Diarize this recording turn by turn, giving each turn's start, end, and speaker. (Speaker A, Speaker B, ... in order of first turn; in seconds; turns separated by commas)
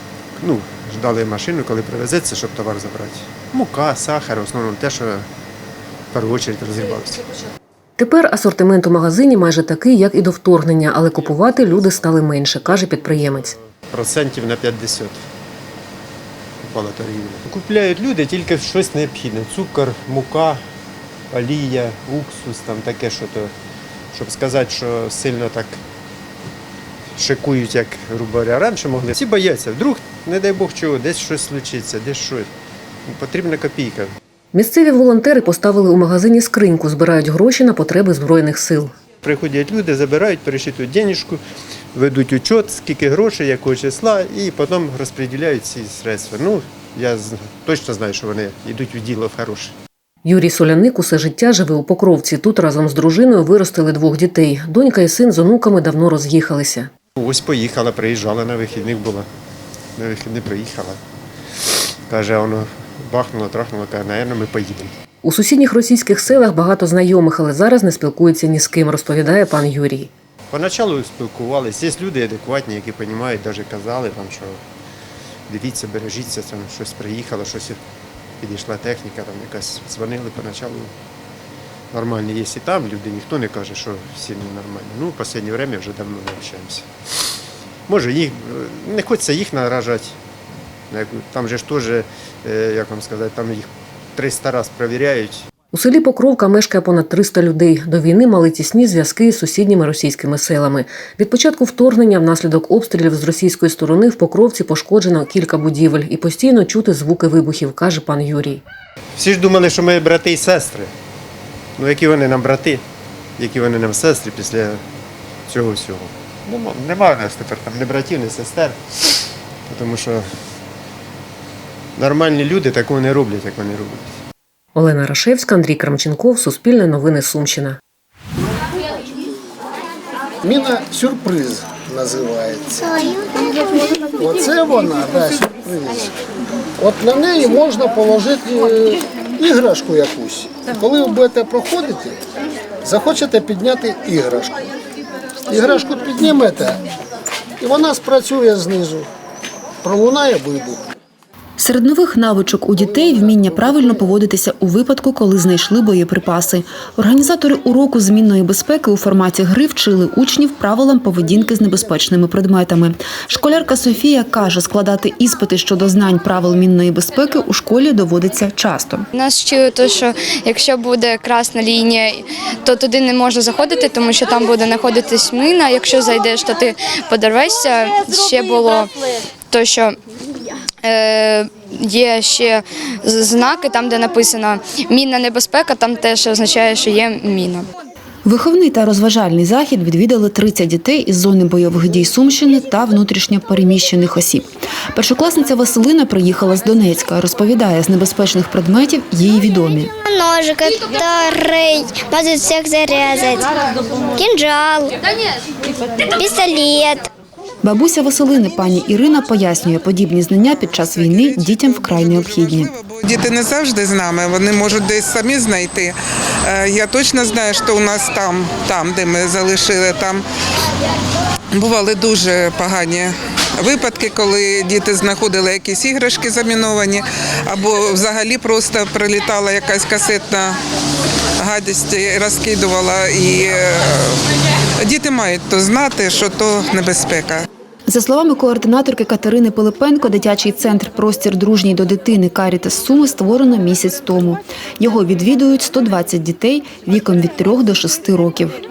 Speaker A: 0.4-5.2, Speaker A: 6.1-7.2, Speaker B: 8.0-13.5, Speaker A: 11.1-12.1, Speaker A: 12.6-15.2, Speaker A: 16.6-20.6, Speaker A: 21.3-23.5, Speaker A: 24.1-25.8, Speaker A: 27.2-32.5, Speaker A: 33.1-34.1, Speaker B: 34.5-38.9, Speaker A: 39.2-41.4, Speaker A: 41.9-49.7, Speaker B: 50.2-56.9, Speaker A: 57.2-59.3, Speaker A: 60.0-61.0, Speaker A: 62.1-64.9, Speaker B: 65.2-70.1, Speaker A: 70.5-74.6, Speaker A: 75.5-77.8, Speaker A: 78.4-80.9, Speaker A: 81.9-86.9, Speaker A: 87.9-90.2, Speaker A: 90.9-95.4, Speaker B: 95.7-108.6, Speaker A: 109.2-110.9, Speaker A: 111.8-112.8, Speaker A: 113.4-114.8, Speaker A: 115.5-118.8, Speaker A: 119.7-120.2, Speaker A: 122.0-124.2, Speaker B: 124.7-127.8, Speaker C: 130.4-132.7, Speaker C: 134.2-136.1, Speaker C: 136.8-142.2, Speaker C: 142.8-144.6, Speaker C: 145.5-146.8, Speaker C: 147.6-149.1, Speaker C: 149.8-150.8, Speaker D: 151.6-169.0, Speaker E: 169.2-178.9, Speaker E: 179.5-179.9, Speaker E: 180.8-187.6, Speaker D: 188.2-199.9, Speaker F: 200.1-203.5, Speaker F: 204.1-204.9, Speaker F: 206.1-207.1, Speaker D: 207.6-212.7, Speaker G: 211.2-215.9, Speaker G: 216.5-220.2, Speaker G: 221.5-230.6, Speaker G: 231.4-234.2, Speaker G: 234.8-237.4, Speaker D: 237.9-248.6